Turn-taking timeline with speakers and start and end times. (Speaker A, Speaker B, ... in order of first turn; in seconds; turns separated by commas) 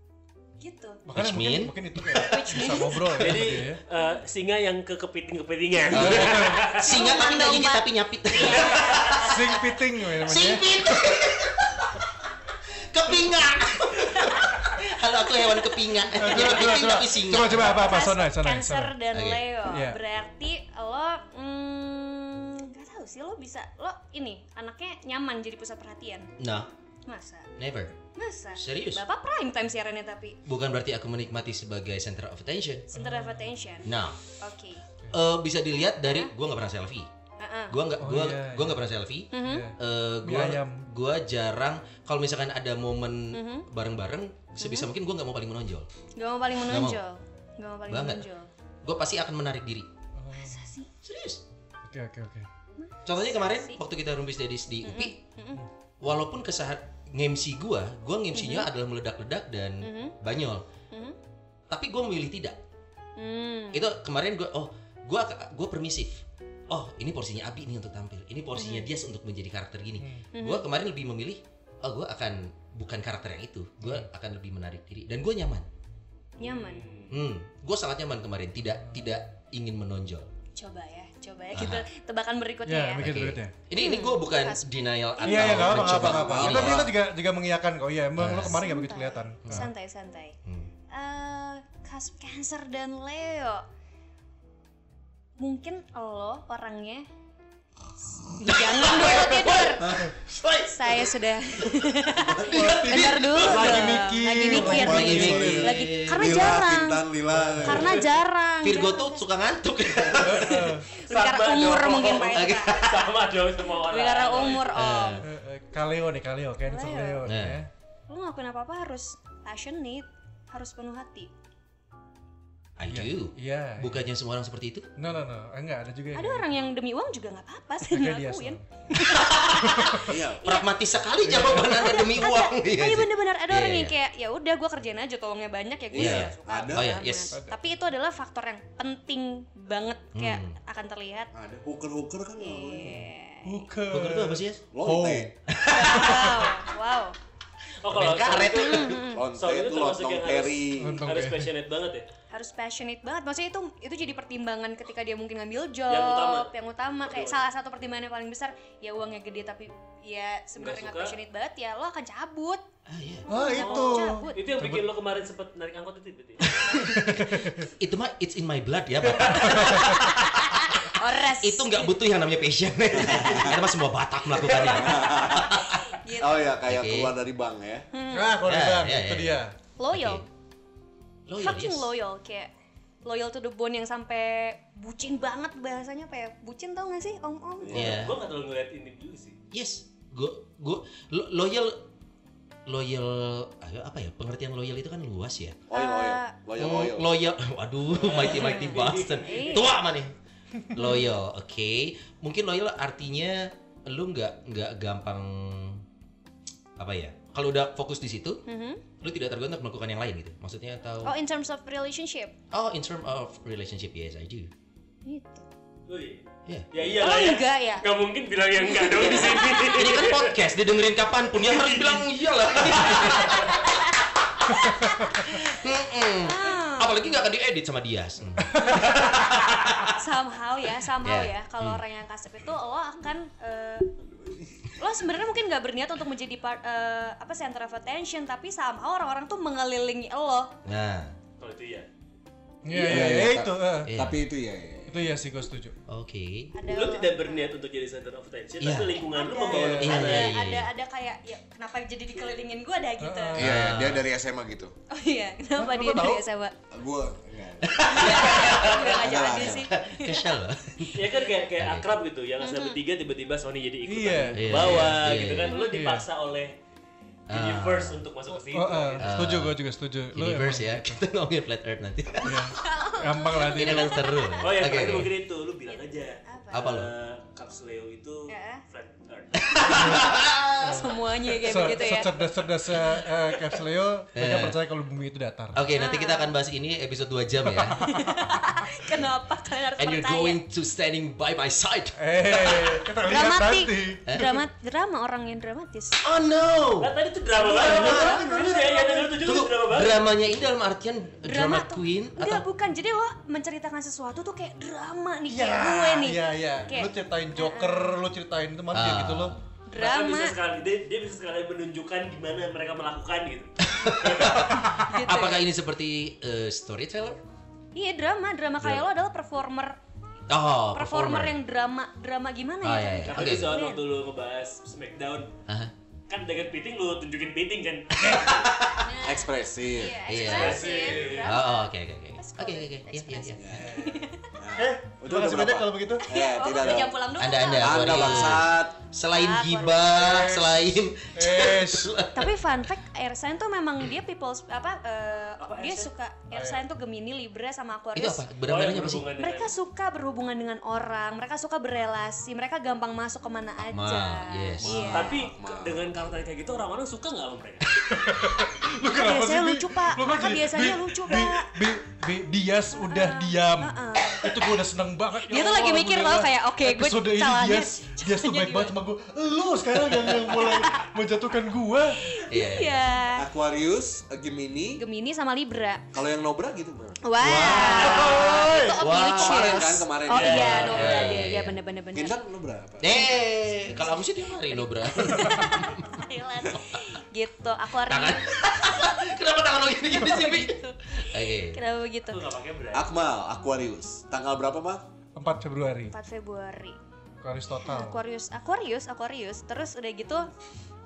Speaker A: 0.6-1.0, Speaker B: 1.1-3.8, Speaker C: 1.1-1.8, Speaker A: 2.1-3.4, Speaker D: 3.2-6.9, Speaker C: 5.9-9.4, Speaker B: 5.9-6.7, Speaker A: 6.6-9.3, Speaker D: 8.5-9.0, Speaker B: 9.1-11.0, Speaker C: 10.2-12.1, Speaker C: 12.9-17.9, Speaker B: 16.2-19.0, Speaker A: 17.5-26.3, Speaker C: 19.1-19.5, Speaker B: 19.7-20.0, Speaker C: 26.4-26.7, Speaker A: 27.1-27.5, Speaker C: 27.6-27.9, Speaker A: 28.2-30.4, Speaker C: 28.6-29.0, Speaker C: 30.5-32.9, Speaker A: 32.9-34.8, Speaker B: 33.0-33.5, Speaker C: 33.9-34.2, Speaker C: 35.1-37.1, Speaker A: 36.0-36.3, Speaker A: 37.4-37.8, Speaker C: 37.7-45.9, Speaker B: 38.0-38.8, Speaker A: 39.3-39.7, Speaker B: 39.4-40.9, Speaker A: 43.3-43.7, Speaker A: 44.6-44.9, Speaker A: 46.2-48.5, Speaker C: 46.7-47.0, Speaker C: 47.9-48.2, Speaker C: 48.8-49.9, Speaker B: 50.2-50.6, Speaker A: 50.3-50.9, Speaker C: 51.0-51.4, Speaker B: 51.9-52.5, Speaker A: 52.8-53.8, Speaker C: 53.1-55.2, Speaker A: 54.8-55.6, Speaker C: 56.0-60.7, Speaker A: 58.3-58.7, Speaker A: 59.8-60.2, Speaker A: 60.9-61.2, Speaker C: 61.7-62.6, Speaker A: 63.2-63.9, Speaker C: 63.7-75.7, Speaker A: 68.6-68.9, Speaker B: 70.0-70.3, Speaker A: 70.3-70.7, Speaker B: 73.8-74.1, Speaker A: 76.4-76.9, Speaker D: 76.4-77.1, Speaker C: 77.1-80.3, Speaker A: 80.6-83.1, Speaker C: 81.5-81.9, Speaker B: 82.7-83.5, Speaker C: 83.0-86.9, Speaker A: 83.8-85.7, Speaker B: 85.2-89.7, Speaker E: 85.5-86.9, Speaker C: 88.2-88.6, Speaker A: 88.4-90.4, Speaker C: 89.4-89.7, Speaker C: 90.5-90.7, Speaker A: 90.9-93.6, Speaker A: 95.4-97.1, Speaker A: 98.4-99.9, Speaker C: 98.5-103.9, Speaker A: 100.7-107.1, Speaker B: 102.4-105.6, Speaker E: 103.4-108.1, Speaker C: 104.5-106.6, Speaker B: 107.3-108.0, Speaker A: 107.6-109.3, Speaker C: 108.6-110.7, Speaker A: 110.1-112.9, Speaker B: 110.2-110.8, Speaker D: 110.9-114.7, Speaker C: 112.3-112.9, Speaker A: 113.9-115.2, Speaker C: 114.6-115.2, Speaker B: 115.2-117.7, Speaker A: 116.7-117.2, Speaker C: 117.2-117.6, Speaker A: 118.1-121.3, Speaker C: 122.8-124.9, Speaker B: 122.9-124.1, Speaker B: 125.0-126.5, Speaker A: 126.1-130.7, Speaker B: 127.9-128.9, Speaker C: 129.1-133.9, Speaker E: 130.0-130.4, Speaker B: 131.2-131.7, Speaker A: 131.5-141.3, Speaker E: 135.9-136.9, Speaker C: 135.9-137.3, Speaker C: 140.1-140.6, Speaker E: 141.3-143.0, Speaker A: 142.4-143.6, Speaker B: 143.4-145.3, Speaker C: 143.9-144.6, Speaker E: 144.7-145.3, Speaker C: 145.5-146.4, Speaker A: 145.7-147.2, Speaker D: 147.8-152.1, Speaker C: 147.8-149.1, Speaker A: 148.6-149.3, Speaker E: 149.1-151.0, Speaker B: 150.8-151.5, Speaker A: 152.3-162.7, Speaker D: 155.9-156.5, Speaker D: 157.1-157.4, Speaker D: 160.6-161.2, Speaker C: 162.9-163.3, Speaker A: 163.3-164.6, Speaker B: 163.3-164.8, Speaker D: 163.5-166.5, Speaker C: 166.4-167.3, Speaker B: 166.9-167.7, Speaker C: 167.8-175.8, Speaker B: 169.5-169.9, Speaker A: 170.1-172.0, Speaker E: 172.9-173.6, Speaker E: 174.4-177.9, Speaker A: 175.3-176.5, Speaker C: 176.7-177.2, Speaker A: 177.9-178.4, Speaker B: 178.1-179.6, Speaker C: 178.4-179.4, Speaker A: 179.8-180.2, Speaker C: 179.9-180.2, Speaker C: 181.3-181.9, Speaker A: 181.4-182.5, Speaker A: 183.1-188.0, Speaker E: 187.6-188.1, Speaker C: 187.7-188.2, Speaker D: 187.8-189.4, Speaker C: 189.5-191.9, Speaker C: 192.7-195.6, Speaker E: 195.7-197.1, Speaker A: 195.7-196.3, Speaker C: 196.6-200.1, Speaker D: 197.9-199.5, Speaker A: 198.3-199.7, Speaker C: 200.7-205.8, Speaker A: 200.8-201.2, Speaker C: 206.8-208.4, Speaker A: 208.5-208.8, Speaker C: 209.0-211.1, Speaker A: 211.0-212.4, Speaker C: 212.5-214.5, Speaker A: 215.1-215.5, Speaker D: 215.9-216.2, Speaker D: 216.7-220.3, Speaker A: 216.8-217.9, Speaker A: 218.6-220.0, Speaker C: 219.0-223.8, Speaker D: 221.4-223.5, Speaker A: 223.3-225.5, Speaker C: 224.4-229.9, Speaker A: 226.2-227.2, Speaker B: 228.4-228.9, Speaker A: 228.6-229.1, Speaker A: 229.9-233.9, Speaker C: 231.0-231.8, Speaker A: 234.8-240.5, Speaker C: 240.7-241.2, Speaker D: 241.4-241.9, Speaker B: 242.6-243.9, Speaker E: 242.8-245.0, Speaker C: 242.9-244.2, Speaker B: 244.9-245.8, Speaker C: 245.9-246.5, Speaker A: 246.5-247.5, Speaker D: 246.7-250.4, Speaker C: 248.6-249.0, Speaker A: 249.1-253.4, Speaker B: 249.5-249.9, Speaker C: 249.7-250.7, Speaker B: 253.0-253.6, Speaker E: 253.4-254.7, Speaker C: 253.4-254.1, Speaker A: 254.9-256.6, Speaker B: 255.6-256.3, Speaker E: 256.7-259.7, Speaker C: 257.6-261.9, Speaker A: 257.8-260.3, Speaker D: 260.9-266.6, Speaker A: 262.4-262.8, Speaker B: 263.9-264.9, Speaker C: 264.3-265.6, Speaker A: 265.5-265.9, Speaker B: 265.7-266.1, Speaker C: 267.3-268.0, Speaker D: 267.3-269.1, Speaker B: 268.3-271.0, Speaker C: 269.0-269.6, Speaker C: 270.1-272.5, Speaker B: 272.2-274.0, Speaker A: 272.4-275.1, Speaker C: 273.4-275.1, Speaker D: 274.4-279.9, Speaker A: 275.7-276.8, Speaker C: 276.5-276.9, Speaker A: 278.3-278.6, Speaker C: 279.5-280.9, Speaker A: 279.7-282.3, Speaker B: 279.8-280.9, Speaker B: 281.4-285.6, Speaker C: 284.1-284.6, Speaker C: 285.5-287.8, Speaker A: 285.7-286.3, Speaker B: 287.5-287.9, Speaker A: 287.8-290.4, Speaker C: 289.8-292.7, Speaker B: 292.0-294.0, Speaker A: 293.0-296.0, Speaker C: 294.1-294.4, Speaker C: 296.0-296.9, Speaker D: 296.8-300.0, Speaker A: 297.5-299.1, Speaker C: 297.6-298.2, Speaker B: 297.6-298.7, Speaker C: 299.1-302.4, Speaker A: 301.2-307.9, Speaker B: 305.3-309.3, Speaker C: 308.7-309.4, Speaker A: 309.7-310.4, Speaker D: 309.8-314.6, Speaker C: 313.6-317.2, Speaker A: 314.8-315.4, Speaker A: 317.8-319.8, Speaker C: 318.6-318.9, Speaker C: 320.3-321.4, Speaker A: 320.7-323.8, Speaker C: 322.6-323.6, Speaker D: 323.1-325.3, Speaker C: 325.5-325.7, Speaker D: 326.1-328.5, Speaker C: 327.9-328.9, Speaker A: 328.8-334.3, Speaker E: 329.0-330.1, Speaker C: 330.1-333.6, Speaker D: 330.2-331.3, Speaker B: 330.4-331.2, Speaker E: 333.4-333.8, Speaker E: 334.4-337.0, Speaker B: 334.6-336.1, Speaker A: 336.0-338.5, Speaker C: 337.2-342.4, Speaker E: 337.6-338.8, Speaker A: 339.1-340.0, Speaker B: 339.9-341.9, Speaker A: 342.1-348.3, Speaker D: 345.4-345.9, Speaker B: 346.3-346.7, Speaker C: 347.9-349.1, Speaker D: 348.5-349.5, Speaker A: 349.2-355.2, Speaker C: 353.7-355.1, Speaker E: 354.6-355.9, Speaker D: 354.9-357.7, Speaker B: 357.9-372.0, Speaker A: 358.9-361.6, Speaker A: 362.8-364.3, Speaker A: 365.3-368.8, Speaker A: 370.0-370.9, Speaker A: 371.9-373.3, Speaker C: 372.3-373.0, Speaker E: 373.1-374.8, Speaker A: 374.8-375.8, Speaker E: 375.9-377.1, Speaker A: 377.0-382.2, Speaker C: 377.2-378.2, Speaker D: 377.6-378.4, Speaker E: 377.7-378.4, Speaker B: 377.8-378.8, Speaker C: 378.7-381.6, Speaker E: 379.1-381.2, Speaker D: 380.1-381.1, Speaker E: 381.9-383.1, Speaker C: 382.8-386.0, Speaker A: 384.5-389.1, Speaker C: 387.9-391.6, Speaker A: 389.9-392.2, Speaker D: 392.1-392.9, Speaker E: 392.7-394.9, Speaker B: 395.2-395.9, Speaker A: 395.9-396.8, Speaker B: 397.2-398.0, Speaker A: 397.6-400.3